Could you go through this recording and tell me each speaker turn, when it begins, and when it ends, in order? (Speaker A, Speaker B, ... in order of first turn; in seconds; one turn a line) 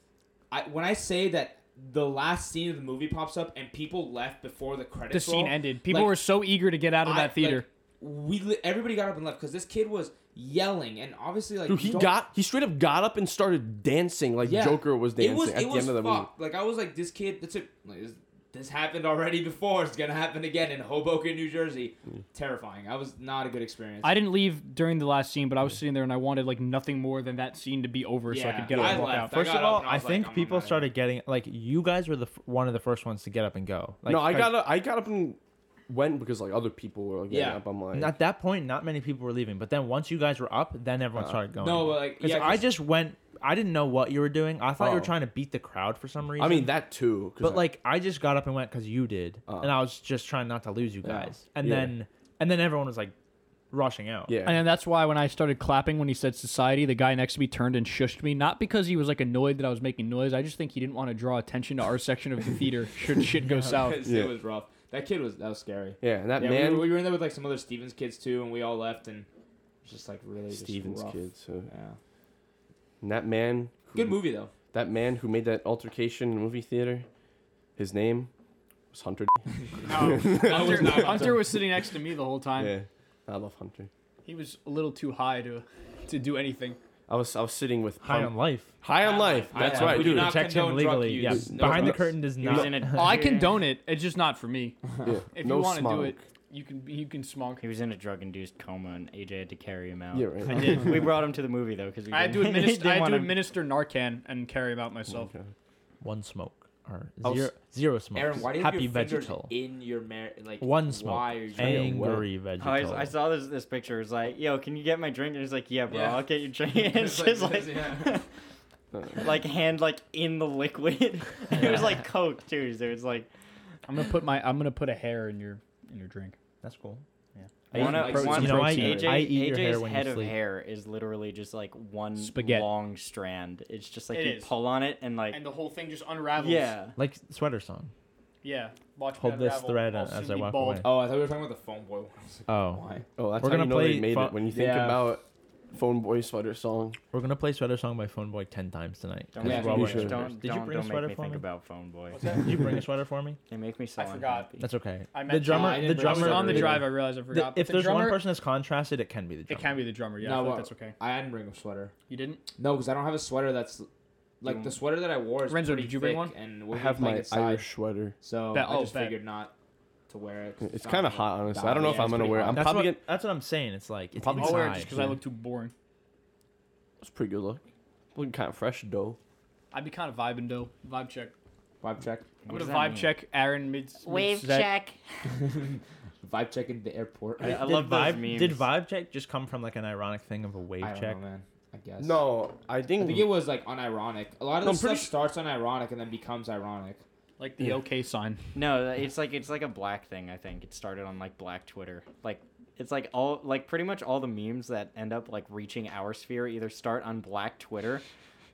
Speaker A: 0.5-6.2
Speaker B: 5.1-7.6
Speaker A: 7.0-12.1
Speaker C: 11.7-16.3
Speaker A: 14.4-24.2
Speaker B: 24.0-29.3
Speaker A: 28.3-30.9
Speaker C: 28.7-29.1
Speaker D: 29.2-34.5
Speaker C: 34.0-38.1
Speaker A: 37.3-37.6
Speaker D: 37.9-46.7
Speaker A: 41.6-42.7
Speaker C: 44.8-45.1
Speaker C: 46.4-47.6
Speaker D: 47.4-53.1
Speaker C: 49.5-49.8
Speaker A: 51.0-51.3
Speaker C: 51.6-51.9
Speaker D: 53.7-54.4
Speaker C: 54.3-54.7
Speaker B: 54.4-64.0
Speaker A: 63.7-69.3
Speaker C: 64.0-64.3
Speaker C: 66.0-66.9
Speaker A: 69.8-72.0
Speaker C: 70.5-71.7
Speaker C: 73.0-74.2
Speaker A: 73.9-74.5
Speaker C: 74.7-77.0
Speaker C: 77.8-78.3
Speaker C: 78.9-81.3
Speaker A: 79.8-81.6
Speaker B: 79.8-82.7
Speaker C: 82.5-83.9
Speaker B: 84.2-86.8
Speaker C: 87.1-90.4
Speaker D: 88.0-88.7
Speaker A: 89.0-92.0
Speaker D: 89.6-93.2
Speaker C: 91.2-92.7
Speaker E: 92.4-93.5
Speaker B: 92.9-97.6
Speaker C: 95.0-96.2
Speaker E: 97.6-103.4
Speaker C: 100.1-101.0
Speaker B: 100.6-100.9
Speaker B: 102.1-105.3
Speaker C: 105.1-105.5
Speaker D: 106.0-109.5
Speaker C: 107.2-107.5
Speaker A: 108.1-112.0
Speaker D: 110.6-113.1
Speaker C: 111.6-112.3
Speaker E: 112.6-118.2
Speaker A: 115.9-118.2
Speaker C: 118.9-119.3
Speaker E: 119.2-123.3
Speaker B: 123.9-126.4
Speaker D: 126.6-127.0
Speaker B: 127.7-129.2
Speaker D: 127.7-130.3
Speaker E: 127.7-135.4
Speaker A: 127.8-128.8
Speaker B: 132.2-132.7
Speaker B: 134.1-134.5
Speaker B: 135.3-136.8
Speaker E: 136.4-136.9
Speaker D: 136.9-137.9
Speaker B: 138.4-140.9
Speaker D: 139.1-140.9
Speaker A: 140.8-143.1
Speaker D: 142.5-142.8
Speaker C: 143.2-147.0
Speaker D: 143.4-144.4
Speaker A: 144.5-145.1
Speaker D: 147.1-151.4
Speaker E: 149.3-152.3
Speaker A: 149.4-150.1
Speaker C: 149.7-150.2
Speaker B: 152.1-152.7
Speaker D: 152.3-153.4
Speaker E: 153.5-154.7
Speaker B: 154.0-154.5
Speaker D: 154.6-159.8
Speaker B: 155.1-158.2
Speaker A: 155.4-156.9
Speaker B: 159.5-160.9
Speaker A: 160.2-161.9
Speaker B: 162.1-162.4
Speaker A: 162.6-163.9
Speaker A: 164.4-167.7
Speaker E: 164.4-164.7
Speaker B: 165.5-166.3
Speaker C: 166.7-168.1
Speaker A: 168.2-169.5
Speaker B: 168.5-169.1
Speaker A: 170.1-172.7
Speaker C: 170.6-173.0
Speaker B: 171.8-172.4
Speaker D: 172.5-175.2
Speaker C: 174.2-174.6
Speaker B: 174.3-175.7
Speaker C: 177.0-177.6
Speaker C: 178.1-179.2
Speaker B: 179.7-181.3
Speaker A: 181.8-182.3
Speaker E: 182.4-183.2
Speaker B: 182.5-184.7
Speaker E: 184.0-185.0
Speaker A: 185.3-187.6
Speaker E: 187.4-188.7
Speaker D: 187.4-191.2
Speaker A: 190.8-192.2
Speaker C: 192.0-193.3
Speaker A: 193.0-197.0
Speaker C: 194.6-195.1
Speaker B: 197.4-198.4
Speaker E: 198.5-208.0